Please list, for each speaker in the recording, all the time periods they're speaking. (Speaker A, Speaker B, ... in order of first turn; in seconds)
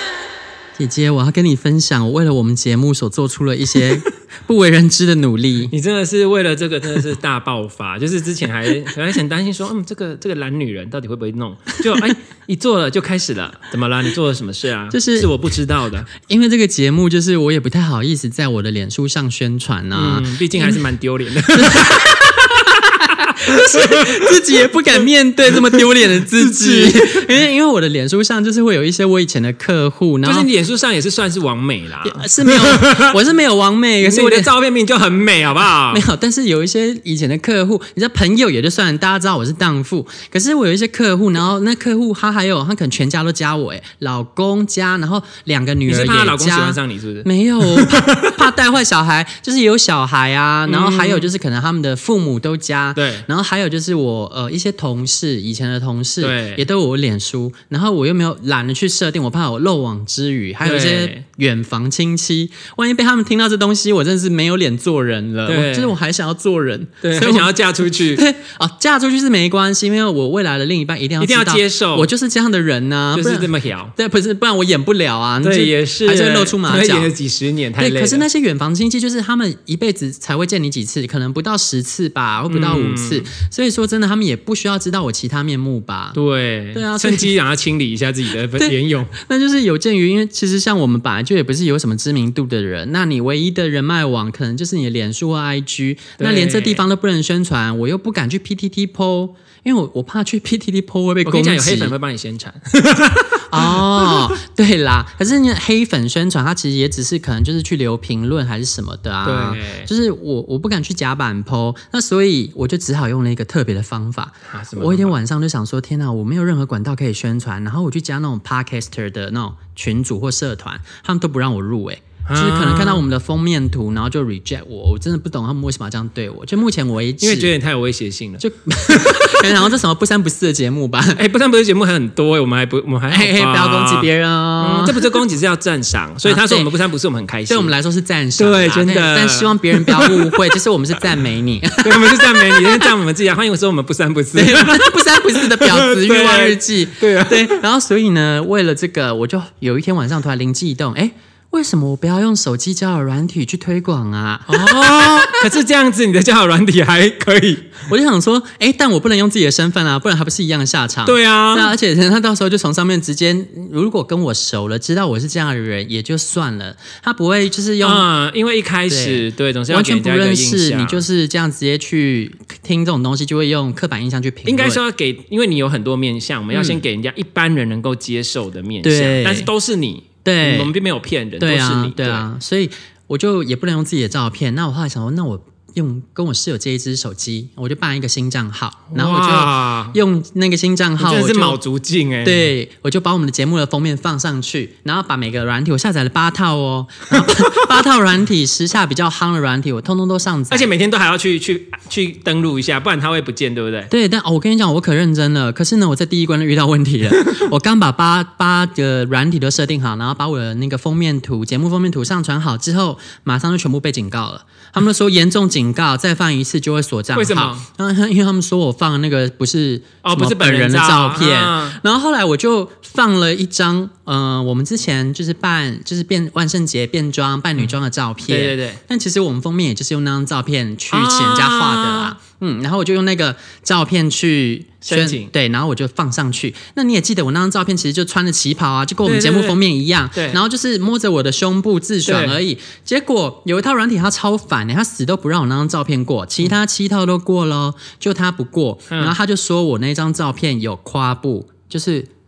Speaker A: 0.7-5.7, 14.9-15.3, 16.1-20.8, 21.5-30.5, 32.0-34.5, 35.9-77.1, 77.8-86.2, 86.7-87.3, 88.6-101.9, 103.5-127.5, 128.4-131.2, 133.1-135.2, 136.2-136.7, 137.5-142.9, 144.3-155.4, 157.9-168.1, 168.9-174.8, 176.5-176.8, 178.8-179.5, 180.2-180.7, 181.4-191.6, 192.2-200.7, 203.9-252.1
Speaker B: 5.7-16.1, 19.9-22.3, 23.3-24.9, 25.6-27.3, 30.2-33.2, 34.0-36.0, 45.8-48.3, 50.6-51.3, 52.9-53.2, 56.2-56.6, 60.6-61.2, 65.5-65.9, 67.0-68.2, 71.2-72.1, 73.1-73.9, 75.4-78.2, 82.5-83.3, 86.1-89.1, 96.2-96.8, 101.2-104.2, 109.2-109.9, 114.5-115.2, 122.2-123.0, 127.2-129.6, 131.1-137.7, 138.4-140.6, 141.8-147.6, 154.5-157.8, 161.0-161.7, 167.8-171.0, 174.4-182.3, 188.9-190.0, 191.0-192.5, 197.2-197.5, 200.5-203.9, 217.1-217.6, 220.0-221.8, 228.3-228.8, 230.9-232.2, 234.8-235.3, 239.0-239.6, 240.1-240.4, 242.0-242.4, 248.9-249.2